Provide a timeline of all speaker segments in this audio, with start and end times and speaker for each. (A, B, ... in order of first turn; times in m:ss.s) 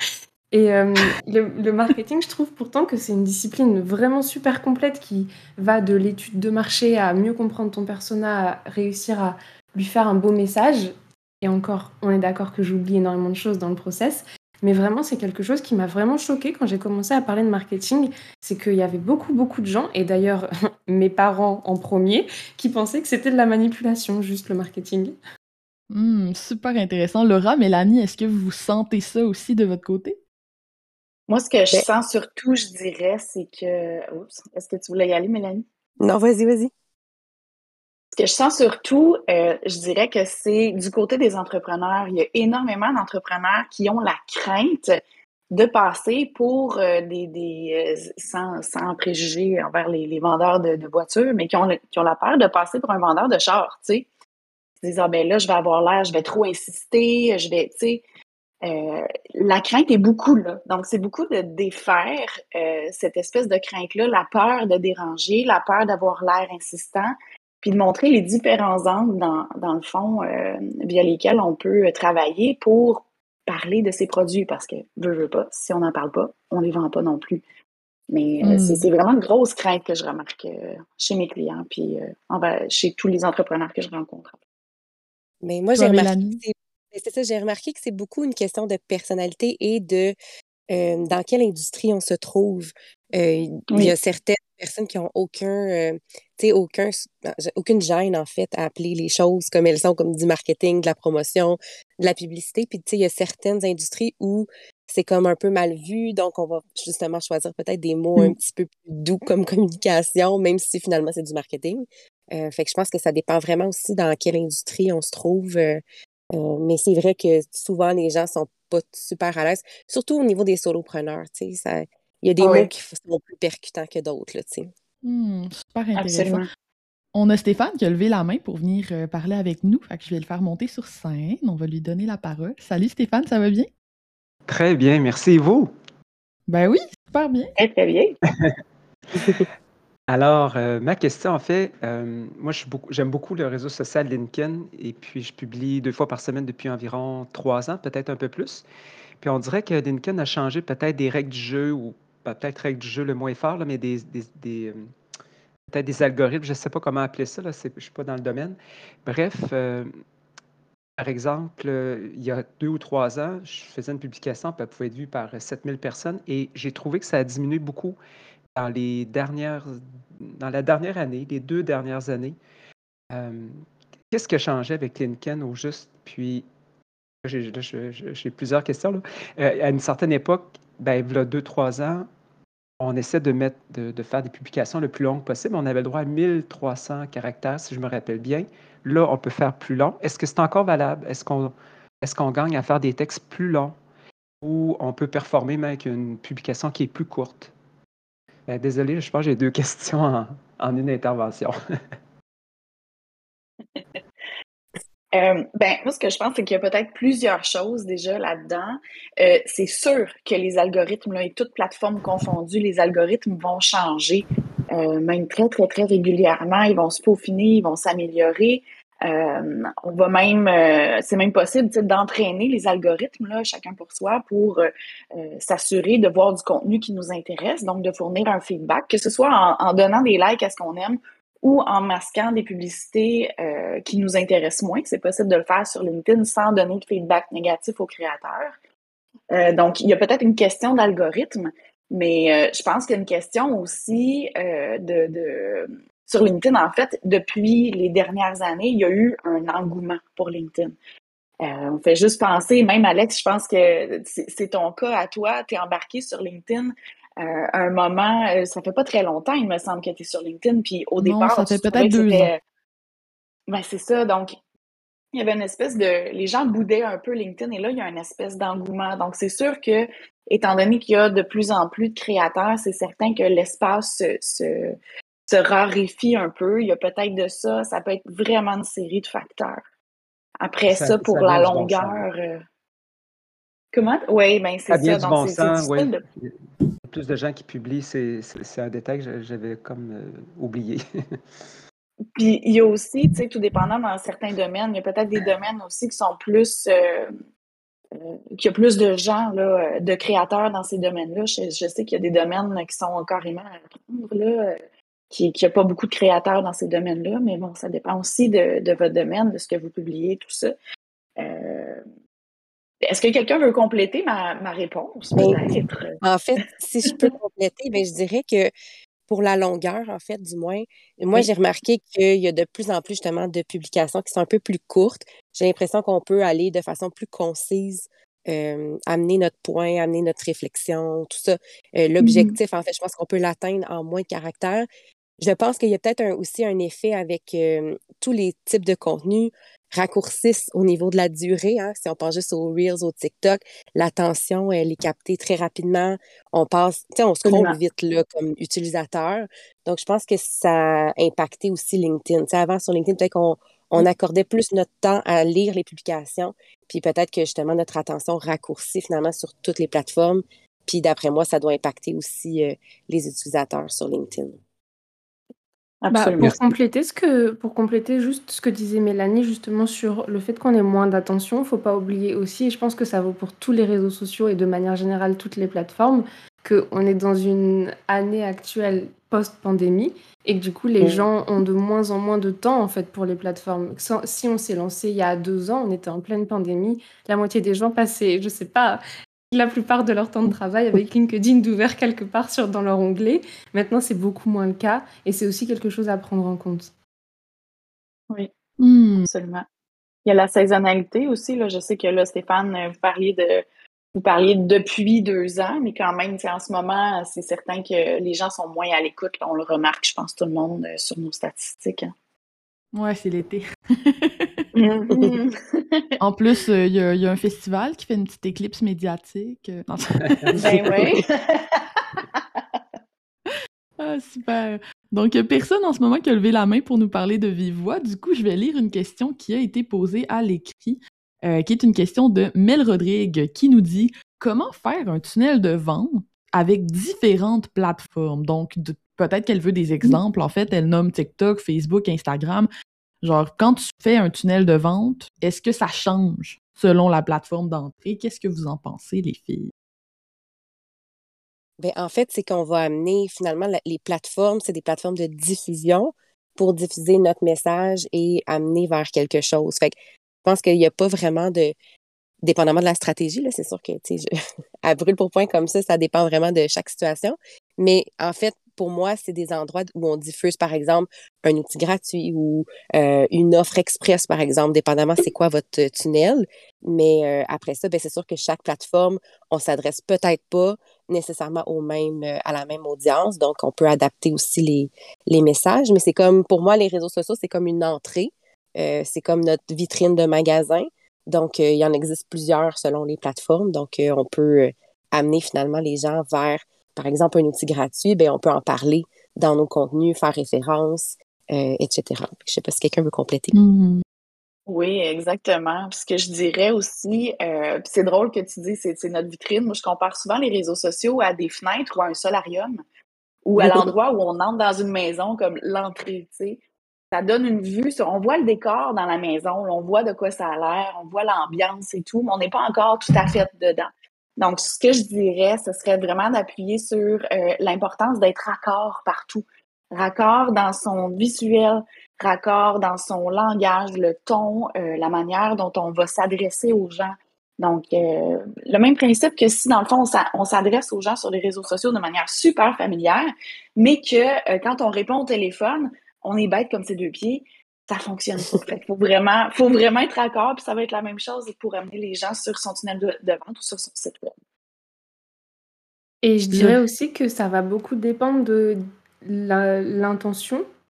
0:00.5-0:25.2 A
0:25.9-0:30.2 B
0:31.3-0:35.6 C
0:36.0-0:36.7 D
0:38.1-0:45.0 C
0:45.5-0:54.1 C
0:54.8-0:58.0 C
0:58.6-1:17.4 C
1:18.1-1:24.4 C
1:18.4-1:18.8 B
1:25.4-1:30.2 D
1:25.8-1:26.4 B
1:30.7-1:55.8 D
1:56.3-2:04.7 D
2:02.4-2:02.7 C
2:05.0-2:06.4 B
2:06.0-2:06.5 C
2:07.1-2:13.7 B
2:14.5-2:15.7 E
2:16.5-2:17.5 B
2:17.6-2:18.2 C
2:19.2-2:19.5 E
2:20.1-2:28.6 E
2:29.2-2:34.9 E
2:35.7-2:39.9 E
2:41.0-2:48.0 E
2:48.6-2:52.4 E
2:53.1-2:53.6 E
2:54.1-2:56.5 E
2:57.2-3:02.1 E
3:02.8-3:13.8 E
3:14.4-3:17.5 E
3:18.5-3:21.6 E
3:25.1-3:58.5 C
3:59.3-4:10.8 C
4:11.4-4:22.4 C
4:21.0-4:22.3 B
4:23.5-4:24.4 C
4:25.1-4:34.8 C
4:35.3-4:39.6 C
4:40.4-4:42.4 C
4:40.7-4:42.0 E
4:43.7-4:46.0 C
4:44.7-4:46.4 E
4:46.9-4:50.8 E
4:52.2-4:57.1 C
4:58.0-5:04.6 C
5:05.1-5:10.5 C
5:11.2-5:11.8 C
5:12.9-5:16.0 C
5:15.2-5:15.5 D
5:16.0-5:18.5 D
5:19.1-5:34.7 D
5:35.2-6:04.4 D
5:47.2-5:47.6 C
6:05.8-6:06.4 C
6:05.9-6:36.7 A
6:38.6-6:39.1 B
6:39.1-6:39.5 C
6:40.1-6:51.9 C
6:52.7-6:54.4 B
6:54.6-6:55.9 C
6:56.0-7:00.7 B
7:00.1-7:00.6 E
7:00.4-7:02.6 C
7:03.8-7:22.5 B
7:23.0-7:29.5 B
7:31.6-7:41.6 D
7:42.2-7:44.1 D
7:44.6-8:23.4 D
8:23.3-8:23.8 B
8:24.5-8:32.6 C
8:33.2-8:36.4 C
8:36.9-9:14.1 C
9:16.0-9:20.4 A
9:16.3-9:16.6 B